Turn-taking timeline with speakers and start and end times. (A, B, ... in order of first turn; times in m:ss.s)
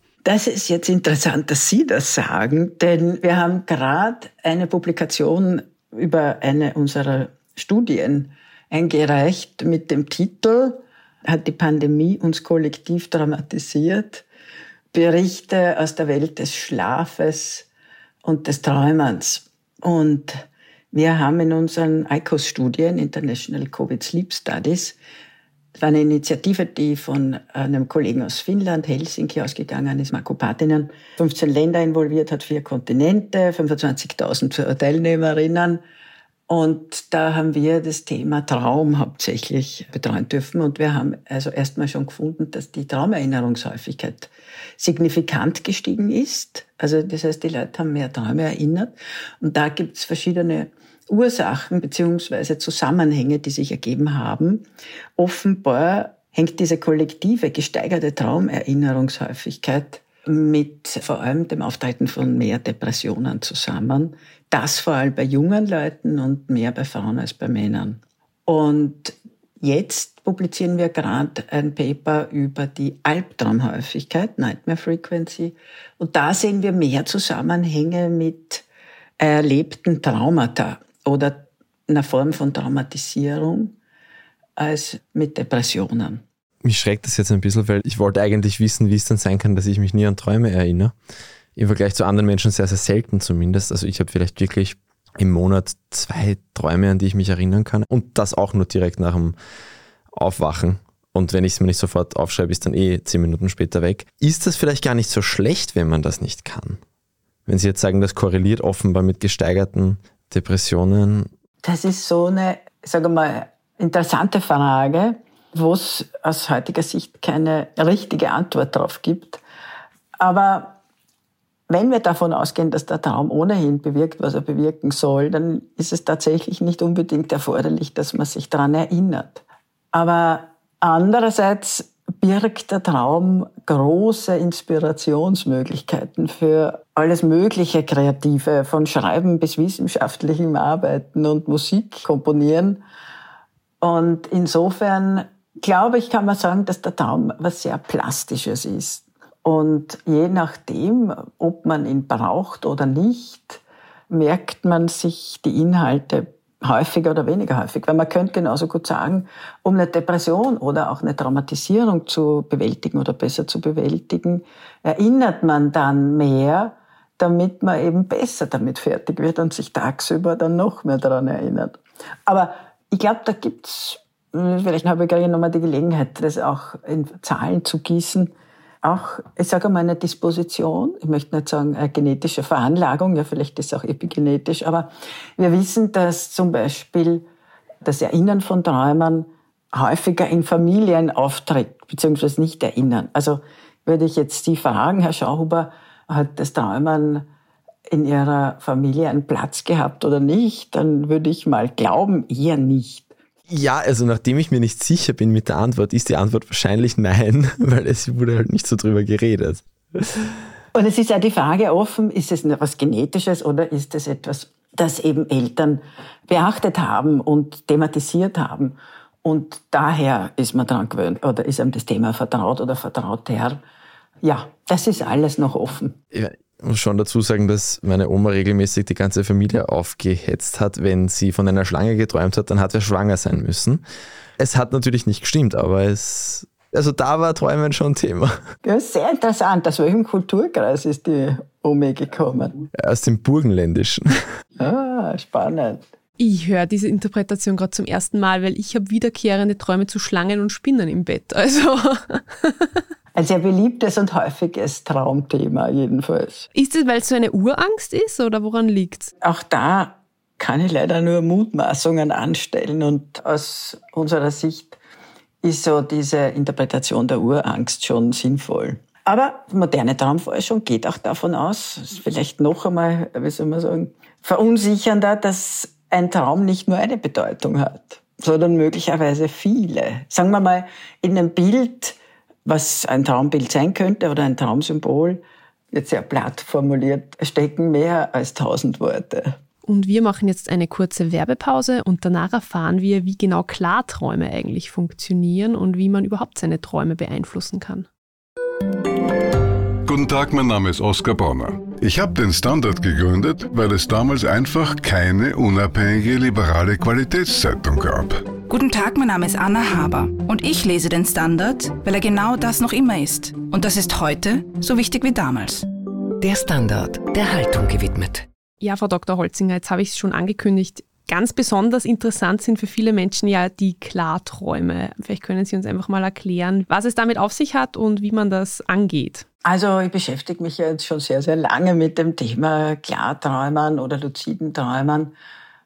0:00.2-0:14.2 A
0:14.9-0:17.7 A
0:18.2-0:20.4 A
0:20.9-0:25.0 A
0:25.8-0:35.8 A
0:36.5-0:54.6 A
0:55.2-1:18.6 A
1:19.2-1:23.7 A
1:24.6-1:26.2 A
1:26.6-1:30.9 B
1:31.6-1:39.4 B
1:40.1-1:46.8 B
1:47.5-1:51.3 B
1:51.6-1:59.4 A
2:00.2-2:00.8 A
2:01.7-2:22.8 A
2:23.8-2:58.3 A
2:58.8-3:07.2 A
3:07.8-3:17.3 A
3:17.9-3:23.1 A
3:23.5-3:30.3 B
3:30.7-3:43.6 A
3:44.2-3:45.9 A
3:46.1-3:53.8 B
3:54.4-3:58.4 B
3:58.6-4:02.6 A
4:02.7-4:04.1 B
4:04.6-4:05.8 A
4:06.2-4:12.8 C
4:13.1-4:16.5 A
4:16.5-4:19.1 C
4:19.2-4:24.8 A
4:25.4-4:45.2 A
4:45.7-4:49.4 A
4:49.6-4:57.9 C
4:59.8-5:08.3 D
5:08.5-5:15.6 E
5:16.2-5:18.2 F
5:18.6-5:29.2 C
5:29.4-5:35.1 A